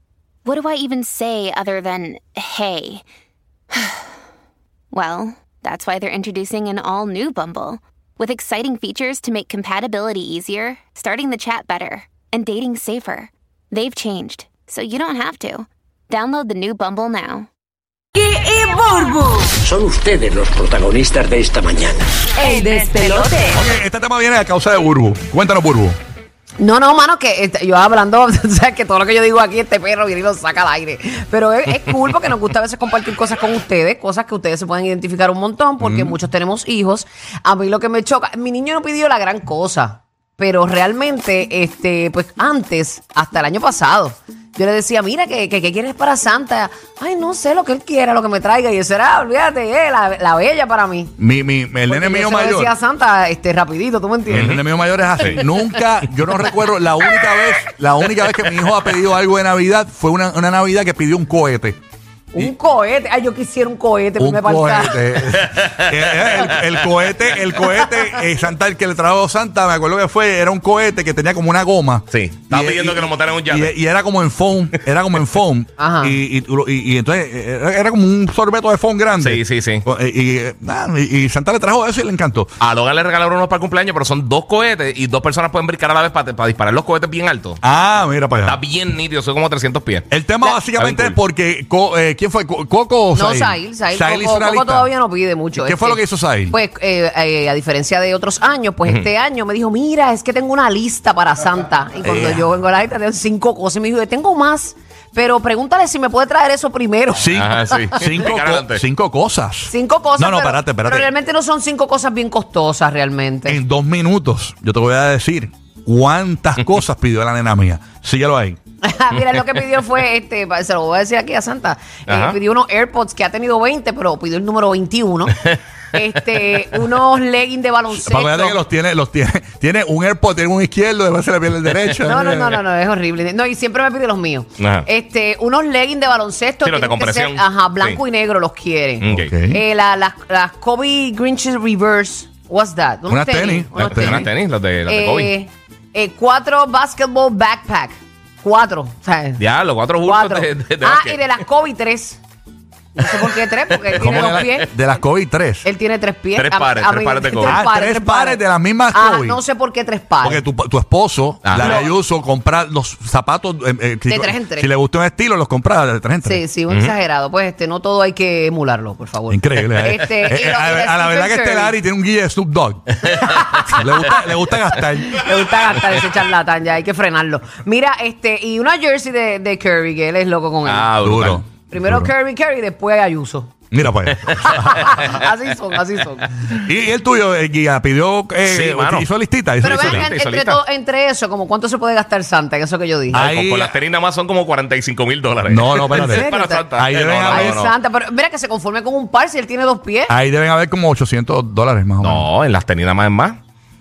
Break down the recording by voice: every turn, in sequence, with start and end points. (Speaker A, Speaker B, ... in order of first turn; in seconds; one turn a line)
Speaker A: 0.5-3.0
Speaker A: 3.7-4.1
Speaker A: 4.9-17.5
Speaker B: 18.2-19.5
Speaker C: 19.6-22.2
Speaker B: 22.4-23.6
Speaker A: 22.4-23.6
Speaker D: 23.5-26.0
Speaker E: 26.6-51.1
Speaker F: 35.8-36.1
Speaker D: 51.2-52.7
Speaker E: 51.9-54.6
Speaker D: 54.3-61.8
Speaker F: 54.3-54.6
Speaker F: 55.2-55.4
Speaker E: 62.3-65.1
Speaker D: 64.2-82.5
Speaker F: 65.4-67.8
Speaker F: 72.1-73.7
Speaker E: 75.8-76.2
Speaker F: 79.2-79.8
Speaker F: 82.6-87.6
Speaker D: 87.6-88.6
Speaker F: 88.4-90.1
Speaker D: 90.1-94.9
Speaker F: 90.8-91.2
Speaker E: 93.1-107.4
Speaker D: 95.6-96.6
Speaker D: 102.0-102.5
Speaker D: 107.2-111.1
Speaker F: 107.3-108.8
Speaker E: 109.7-113.6
Speaker D: 113.5-118.6
Speaker E: 118.8-125.4
Speaker F: 122.1-122.4
Speaker E: 125.9-128.6
Speaker D: 127.9-132.6
Speaker E: 132.0-144.3
Speaker F: 134.6-134.9
Speaker F: 136.6-138.0
Speaker F: 139.0-139.3
Speaker D: 139.1-139.6
Speaker D: 143.1-144.3
Speaker F: 143.8-145.3
Speaker E: 144.9-149.4
Speaker F: 149.4-151.3
Speaker E: 150.0-152.2
Speaker E: 153.0-154.7
Speaker D: 153.9-155.7
Speaker F: 154.0-154.4
Speaker E: 155.6-160.4
Speaker F: 156.3-157.6
Speaker D: 157.4-159.4
Speaker D: 160.2-166.4
Speaker F: 161.4-161.9
Speaker E: 161.6-161.9
Speaker E: 164.1-164.7
Speaker E: 166.2-171.8
Speaker F: 166.7-166.9
Speaker D: 169.3-175.3
Speaker E: 173.2-174.2
Speaker F: 173.2-173.8
Speaker E: 175.1-180.9
Speaker F: 180.6-181.4
Speaker D: 181.0-182.1
Speaker E: 181.7-183.5
Speaker D: 183.7-185.2
Speaker E: 184.3-186.5
Speaker D: 186.5-190.1
Speaker F: 188.4-189.1
Speaker E: 189.6-193.2
Speaker F: 189.6-190.6
Speaker D: 193.1-193.8
Speaker F: 193.1-197.7
Speaker D: 195.5-197.6
Speaker E: 195.9-196.7
Speaker E: 197.3-200.1
Speaker D: 200.1-202.3
Speaker F: 202.0-203.4